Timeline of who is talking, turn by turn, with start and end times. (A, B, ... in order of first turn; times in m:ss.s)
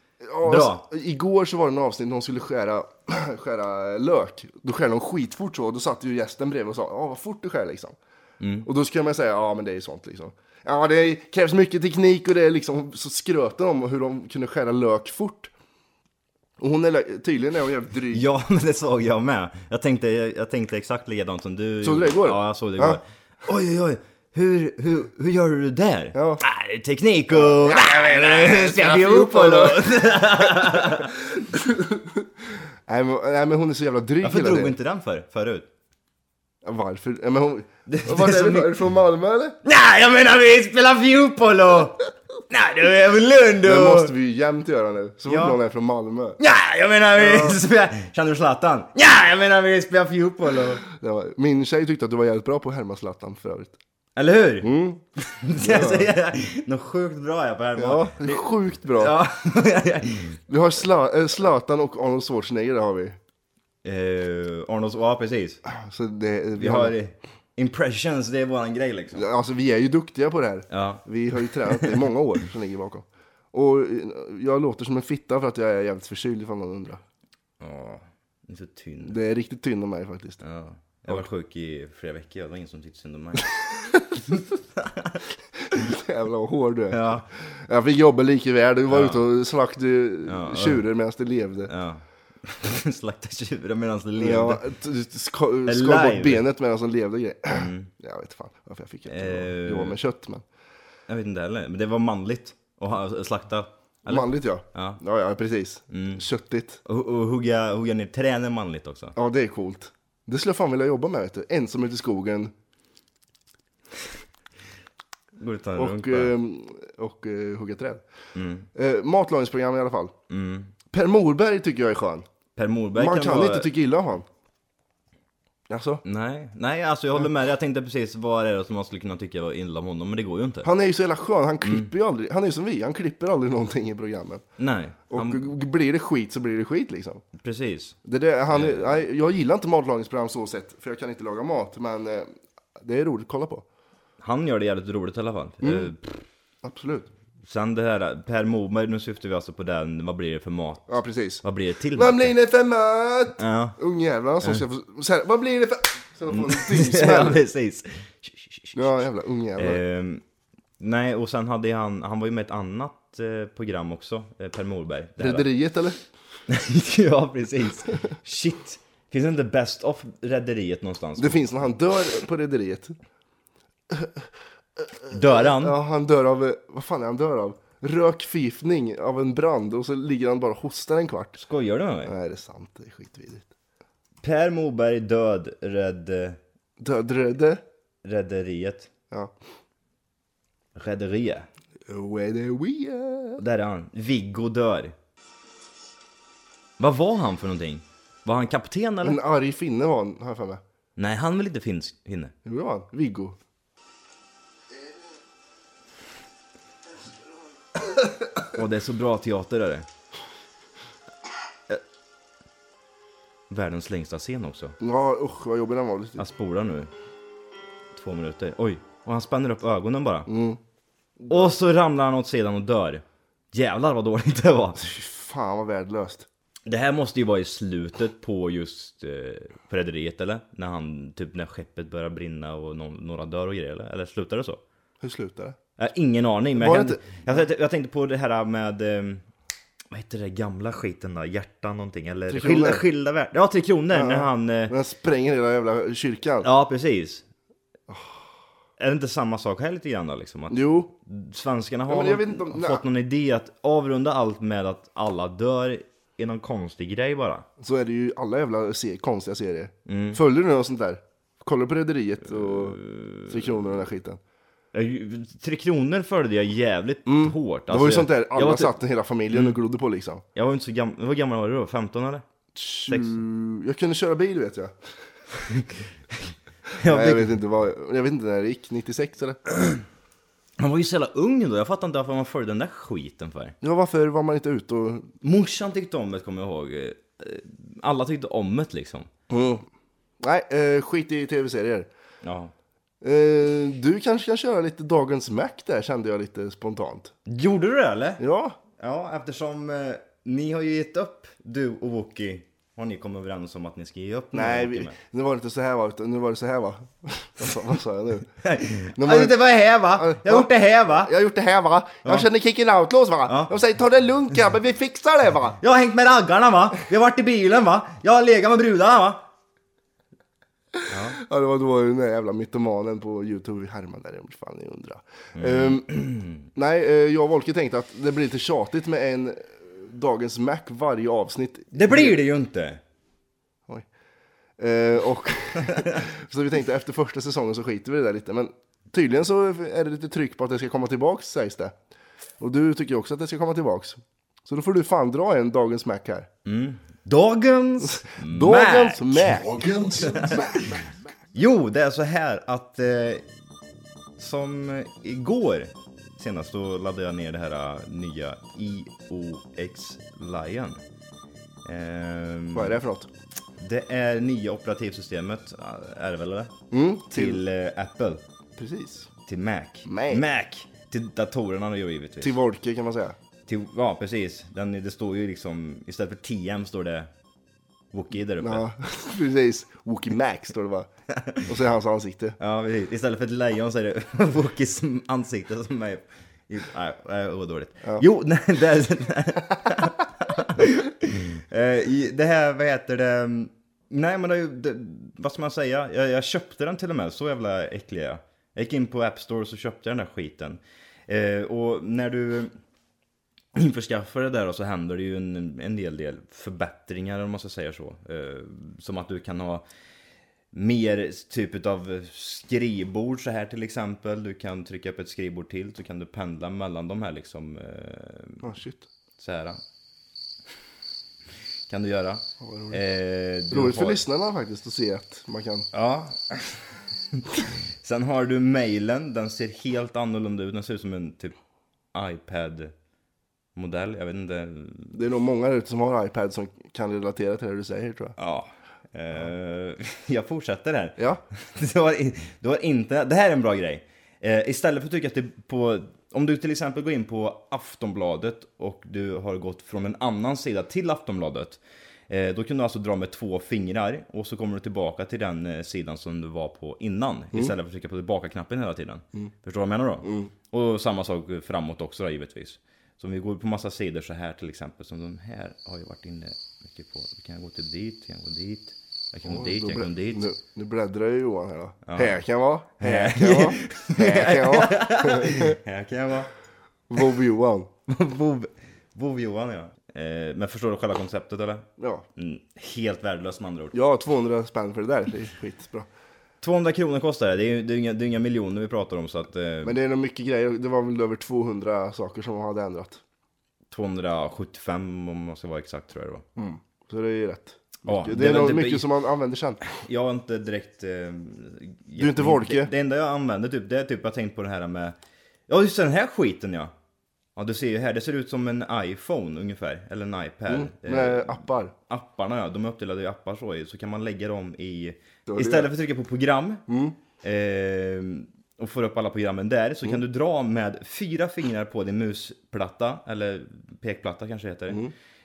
0:00.2-0:08.0 A
0:00.4-0:00.8 B
0:08.4-0:08.7 B
0:08.6-0:15.5 A
0:16.6-0:18.2 A
0:18.1-0:31.2 B
0:21.8-0:23.0 A
0:26.1-0:26.4 A
0:27.3-0:32.3 A
0:32.9-0:34.7 A
0:34.2-0:35.7 B
0:36.6-0:39.6 A
0:37.9-0:38.8 B
0:39.6-0:44.1 B
0:43.6-0:46.4 A
0:45.3-0:45.6 B
0:46.4-0:50.8 B
0:47.2-0:47.6 A
0:50.9-0:53.8 A
0:54.2-0:54.7 B
0:54.6-0:55.0 A
0:55.3-1:00.4 B
0:55.6-0:56.1 A
0:57.8-0:59.2 A
1:00.5-1:03.2 A
1:03.8-1:05.6 B
1:05.7-1:07.0 A
1:06.6-1:09.2 B
1:09.1-1:17.0 A
1:10.7-1:11.0 B
1:17.6-1:19.2 B
1:19.0-1:20.4 A
1:20.4-1:23.6 B
1:24.3-1:25.2 B
1:25.7-1:31.7 A
1:26.9-1:27.3 B
1:28.9-1:29.2 B
1:30.3-1:30.8 B
1:31.7-1:34.6 B
1:34.2-1:40.4 A
1:35.7-1:36.4 B
1:37.5-1:37.9 B
1:39.1-1:40.0 B
1:41.1-1:45.0 B
1:44.1-1:46.8 A
1:45.9-1:46.2 B
1:46.9-1:49.1 B
1:49.2-1:52.5 A
1:55.4-1:56.3 B
1:55.8-1:58.0 A
1:58.4-1:58.7 B
1:58.8-2:00.1 A
2:00.3-2:00.7 B
2:00.9-2:02.3 A
2:02.6-2:03.7 B
2:03.0-2:04.3 A
2:05.7-2:06.0 A
2:06.0-2:10.7 B
2:10.6-2:14.4 A
2:11.6-2:11.9 B
2:14.6-2:15.5 B
2:15.1-2:17.2 A
2:17.4-2:18.0 B
2:18.0-2:23.6 A
2:18.5-2:19.0 B
2:24.2-2:26.2 B
2:25.6-2:25.9 A
2:26.6-2:27.1 A
2:27.4-2:32.3 B
2:30.9-2:31.4 A
2:32.0-2:37.4 A
2:33.4-2:33.8 B
2:36.3-2:39.0 B
2:38.8-2:39.8 A
2:39.6-2:40.2 B
2:40.8-2:45.5 B
2:45.2-2:46.0 A
2:46.5-2:51.4 B
2:51.2-2:53.0 A
2:53.9-2:54.2 A
2:54.8-3:01.4 A
2:55.1-2:55.8 B
3:01.4-3:02.1 B
3:02.0-3:03.5 A
3:04.2-3:06.4 B
3:06.8-3:07.6 A
3:08.0-3:08.9 B
3:10.8-3:11.5 B
3:11.9-3:13.4 A
3:13.4-3:14.9 B
3:16.8-3:19.2 B
3:19.0-3:20.6 A
3:21.0-3:22.3 B
3:22.4-3:23.4 A
3:28.5-3:29.9 B
3:33.5-3:34.8 B
3:34.8-3:36.2 A
3:36.2-3:36.9 B
3:37.9-3:40.3 B
3:40.3-3:40.6 A
3:41.2-3:41.5 A
3:41.3-3:44.8 B
3:44.8-3:46.3 A
3:46.7-3:54.6 B
3:55.0-3:55.6 A
3:55.8-3:59.2 B
3:56.6-3:57.2 A
3:59.9-4:04.8 B
4:02.3-4:02.8 A
4:03.9-4:06.5 A
4:06.4-4:07.2 B
4:08.8-4:17.5 B
4:10.5-4:10.9 A
4:11.9-4:12.8 A
4:17.6-4:22.8 A
4:19.9-4:20.2 B
4:22.4-4:23.6 B
4:23.3-4:24.2 A
4:24.7-4:28.7 B
4:27.1-4:30.2 A
4:30.4-4:32.2 B
4:32.6-4:34.7 A
4:32.9-4:33.2 B
4:35.5-4:37.4 B
4:36.8-4:39.8 A
4:40.6-4:43.6 B
4:43.6-4:45.1 A
4:45.2-4:49.1 B
4:49.3-4:49.6 A
4:50.2-4:51.9 A
4:52.2-4:52.5 B
4:53.0-4:57.1 A
4:57.3-4:58.2 B
4:58.2-4:58.6 A
4:58.8-5:05.0 B
5:04.3-5:08.3 A
5:08.4-5:11.1 B
5:09.0-5:15.6 A
5:13.3-5:13.5 B
5:15.6-5:19.2 B
5:20.9-5:21.2 B
5:21.1-5:25.8 A
5:25.4-5:26.4 B
5:26.6-5:32.2 A
5:31.7-5:32.8 B
5:34.6-5:41.7 A
5:42.4-5:46.3 A
5:46.4-5:50.8 B
5:47.9-5:50.8 A
5:51.4-5:53.2 B
5:54.2-6:00.8 B
6:01.6-6:02.8 B
6:02.5-6:03.1 A
6:03.6-6:06.5 B
6:06.7-6:07.4 A
6:07.1-6:08.2 B
6:08.6-6:09.1 A
6:09.3-6:12.4 B
6:09.9-6:10.2 A
6:12.2-6:13.2 A
6:13.5-6:17.1 B
6:17.9-6:18.6 B
6:18.4-6:20.9 A
6:21.5-6:22.4 A
6:22.4-6:42.5 B
6:43.6-6:49.6 B
6:50.5-6:58.5 B
6:58.4-6:58.9 A
6:59.2-6:59.6 B
7:01.7-7:04.0 B
7:02.4-7:02.8 A
7:03.5-7:05.7 A
7:05.7-7:11.4 B
7:11.9-7:12.7 B
7:13.6-7:15.0 B
7:14.9-7:18.2 A
7:18.2-7:50.3 B
7:40.0-7:40.3 A
7:49.3-7:55.6 A
7:51.9-7:52.2 B
7:52.8-7:56.3 B
7:56.9-7:57.7 A
7:57.9-8:03.8 B
8:01.8-8:02.1 A
8:03.7-8:05.9 A
8:06.4-8:09.8 B
8:09.6-8:13.0 A
8:13.7-8:16.2 B
8:16.4-8:19.6 A
8:17.9-8:18.9 B
8:19.6-8:25.0 B
8:22.0-8:22.7 A
8:25.5-8:26.7 B
8:27.4-8:36.6 B
8:30.5-8:31.7 A
8:35.3-8:35.7 A
8:36.7-8:37.0 A
8:37.2-8:44.9 B